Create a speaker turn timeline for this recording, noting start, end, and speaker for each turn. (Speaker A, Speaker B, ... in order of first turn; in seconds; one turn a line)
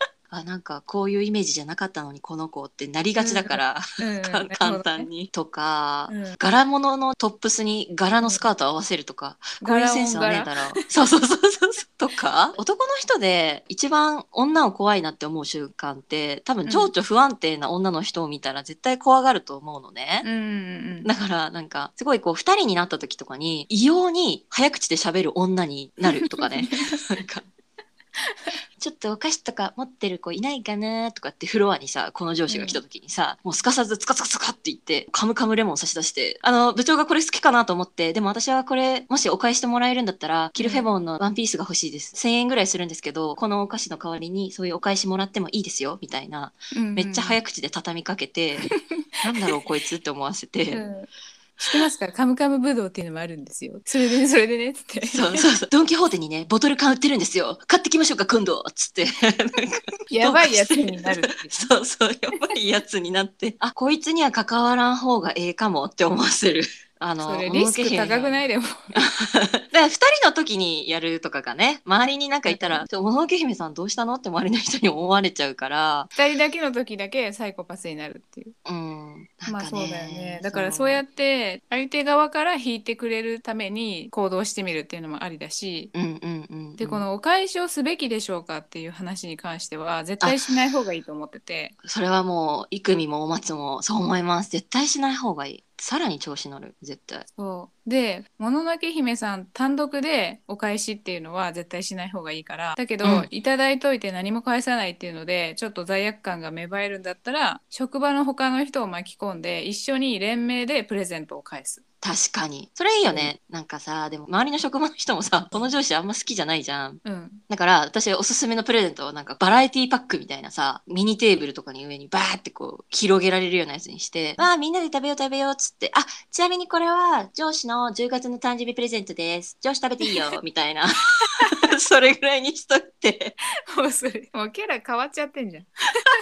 Speaker A: 0.3-20.3
Speaker B: 3.2-5.1
Speaker B: 6.1-6.4
Speaker B: 9.6-10.8
Speaker B: 16.6-16.9
Speaker B: 20.2-21.1
Speaker A: 21.0-27.5
Speaker B: 26.2-27.1
Speaker B: 28.3-28.6
Speaker A: 28.8-50.8
Speaker B: 32.5-32.8
Speaker B: 40.6-40.9
Speaker B: 46.7-47.4
Speaker B: 50.7-51.1
Speaker A: 51.6-51.8
Speaker B: 51.6-55.5
Speaker A: 55.1-68.4
Speaker B: 60.1-61.7
Speaker B: 67.2-69.0
Speaker A: 69.0-76.1
Speaker B: 72.5-72.9
Speaker B: 76.2-78.5
Speaker A: 78.7-81.0
Speaker B: 79.5-85.9
Speaker A: 85.9-87.0
Speaker B: 86.8-91.7
Speaker A: 90.2-90.6
Speaker A: 91.8-97.3
Speaker B: 97.4-111.8
Speaker A: 103.0-103.3
Speaker A: 112.0-130.9
Speaker B: 113.0-113.3
Speaker B: 117.0-117.4
Speaker A: 131.6-133.4
Speaker B: 133.7-135.7